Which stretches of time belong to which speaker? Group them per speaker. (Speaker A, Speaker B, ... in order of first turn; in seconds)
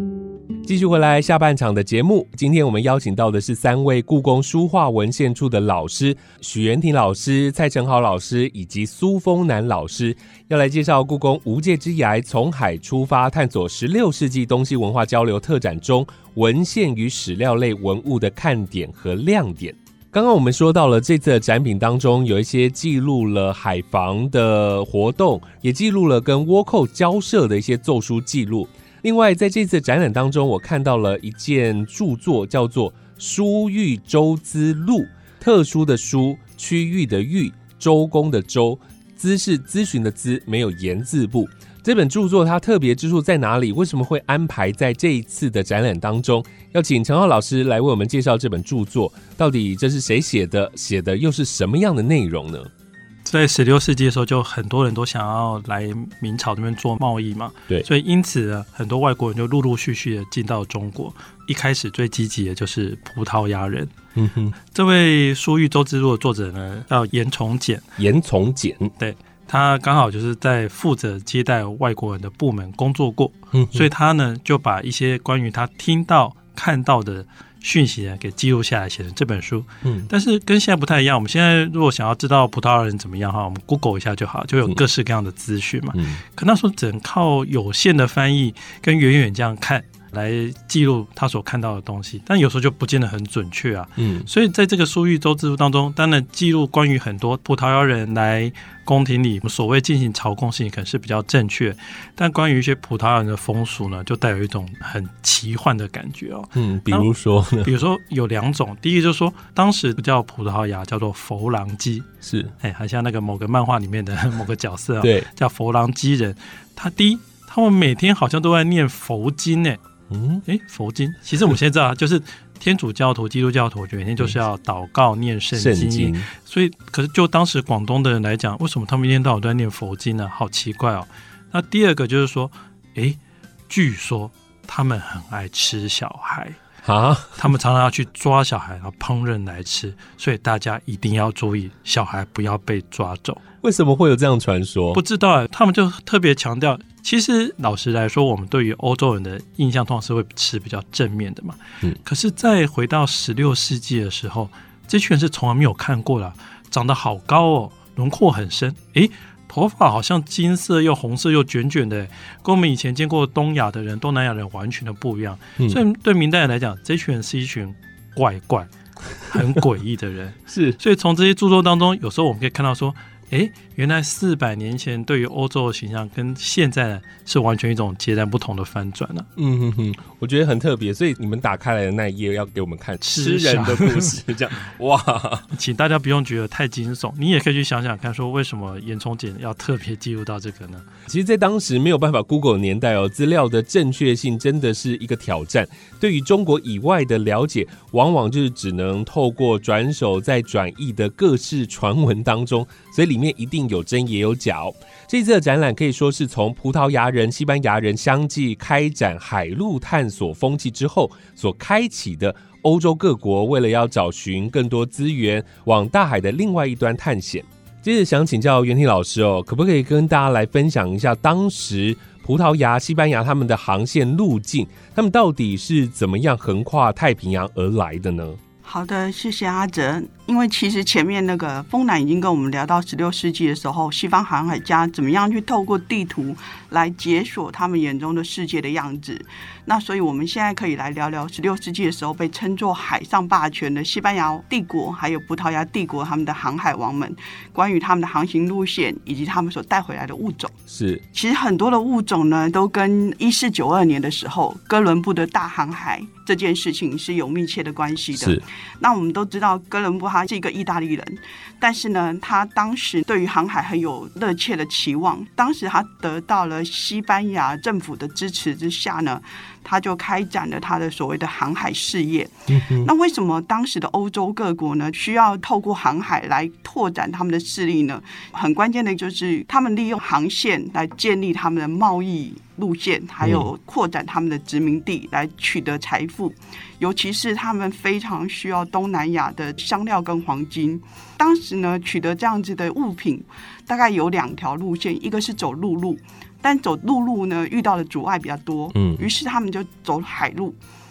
Speaker A: 0.6-52.7, 64.1-64.5, 68.0-68.9, 73.5-73.9, 79.8-80.1, 85.9-86.2, 94.0-94.3, 106.5-107.7, 112.2-112.5, 115.0-115.3, 120.1-120.4, 125.5-126.3, 136.8-137.4, 143.6-145.0, 170.5-170.8, 179.4-185.5, 191.1-228.4, 250.7-251.0, 258.2-258.4, 272.5-272.9, 283.2-283.5, 298.7-299.1
Speaker B: 53.2-63.9, 64.7-67.8, 69.0-107.1, 107.6-112.1, 112.6-119.8, 120.5-136.6, 137.4-143.4, 144.9-179.3, 183.0-184.2, 185.5-190.9
Speaker C: 228.6-250.5, 251.1-300.6